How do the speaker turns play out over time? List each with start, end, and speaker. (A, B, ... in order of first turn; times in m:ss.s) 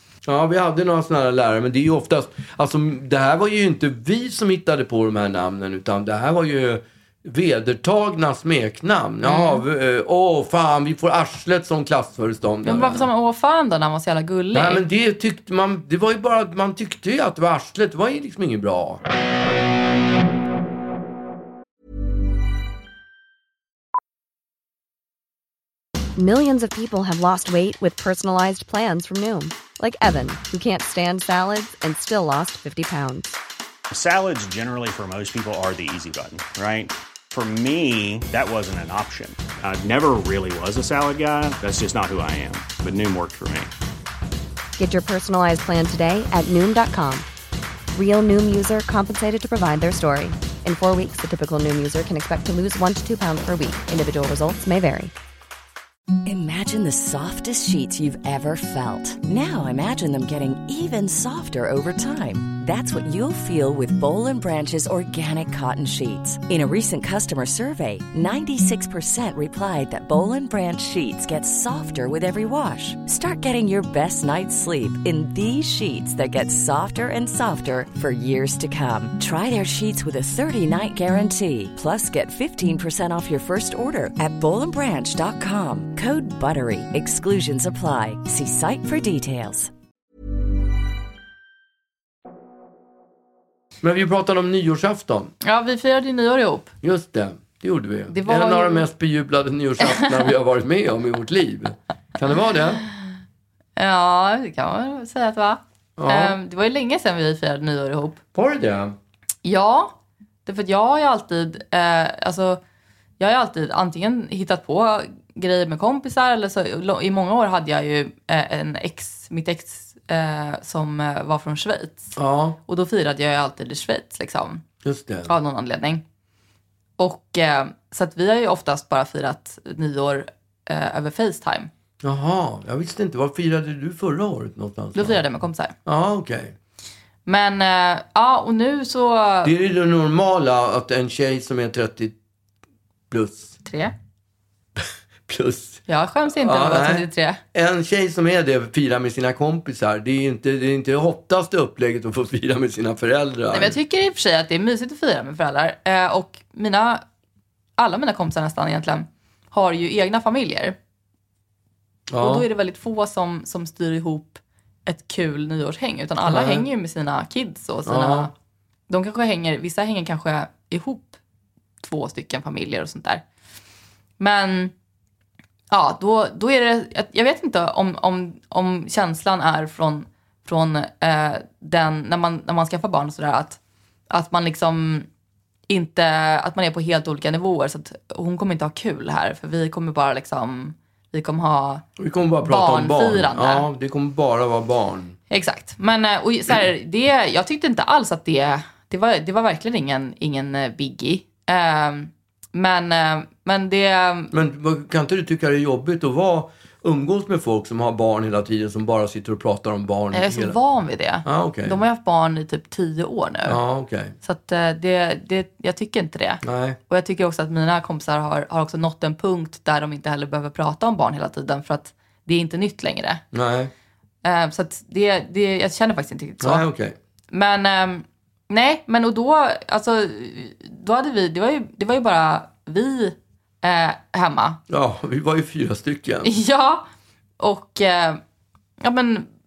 0:00.2-0:13.1 A
0:09.2-0:09.6 B
0:12.6-0:14.8 B
0:14.5-0:19.0 A
0:26.2-0:33.4 C
0:33.9-0:43.7 D
0:44.8-0:47.3 C
0:47.9-0:55.1 C
0:56.2-1:29.7 E
1:33.8-1:35.3 A
1:35.4-1:36.7 B
1:36.8-1:42.8 A
1:38.1-1:38.9 B
1:43.8-1:48.2 B
1:46.0-1:46.4 A
1:48.4-1:49.0 A
1:49.4-1:49.9 B
1:50.5-1:52.6 B
1:53.2-2:02.2 B
2:02.2-2:02.6 A
2:02.7-2:04.6 B
2:04.8-2:05.3 A
2:05.3-2:06.0 B
2:07.0-2:11.7 B
2:12.0-2:15.2 A
2:15.0-2:15.7 B
2:15.9-2:16.5 A
2:17.3-2:19.5 B
2:19.4-2:22.2 A
2:23.1-2:23.6 A
2:23.6-2:23.9 B
2:24.8-2:33.8 A
2:25.9-2:27.4 B
2:33.5-2:37.0 B
2:37.8-2:40.8 B
2:42.1-2:42.5 A
2:42.2-2:48.3 B
2:46.3-2:46.7 A
2:47.9-2:48.3 A
2:48.9-2:51.2 B
2:51.8-2:53.2 B
2:54.2-2:54.7 B
2:55.7-3:03.6 B
3:04.1-3:05.1 B
3:05.7-3:11.8 B
3:12.0-3:15.2 A
3:12.4-3:13.6 B
3:15.3-3:24.3 B
3:24.3-3:30.6 A
3:30.1-3:33.6 B
3:31.2-3:31.8 A
3:33.5-3:34.2 A
3:34.2-3:43.2 B
3:36.4-3:36.8 A
3:43.3-3:43.7 A
3:44.2-3:46.7 B
3:46.4-3:47.0 A
3:47.3-3:54.6 B
3:54.7-3:56.3 A
3:56.2-3:56.9 B
3:57.4-3:58.2 B
3:58.8-3:59.3 B